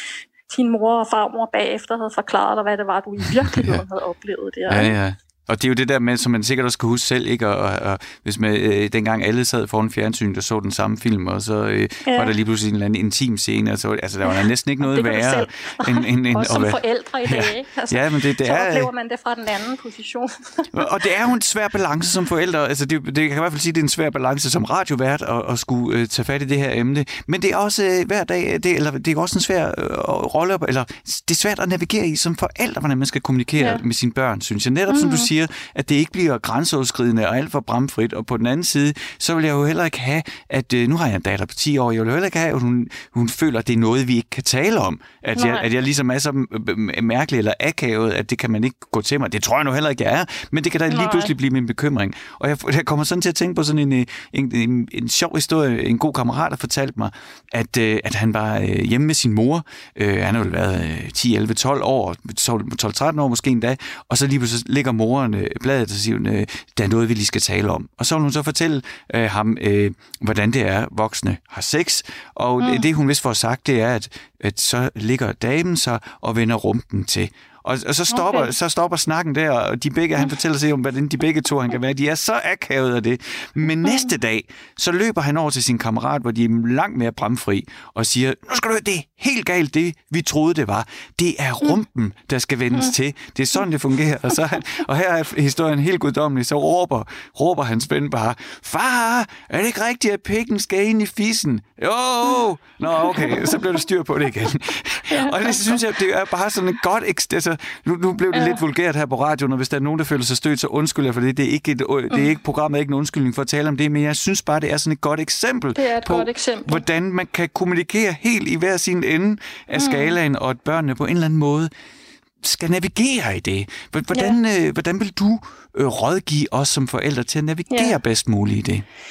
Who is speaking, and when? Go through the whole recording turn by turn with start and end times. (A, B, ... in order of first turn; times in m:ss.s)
0:00.5-0:04.9 A
0:03.4-0:03.8 B
0:04.7-0:18.9 B
0:12.0-0:12.3 A
0:14.2-0:20.9 A
0:20.7-2:01.7 B
0:34.9-0:35.3 A
0:45.4-0:45.6 A
0:50.9-0:51.3 A
1:18.1-1:18.5 A
1:23.8-1:24.1 A
1:43.0-1:43.6 A
1:45.1-1:45.8 A
1:48.3-1:48.6 A
1:55.8-1:56.8 A
1:59.7-2:00.2 A
2:02.4-2:08.8 B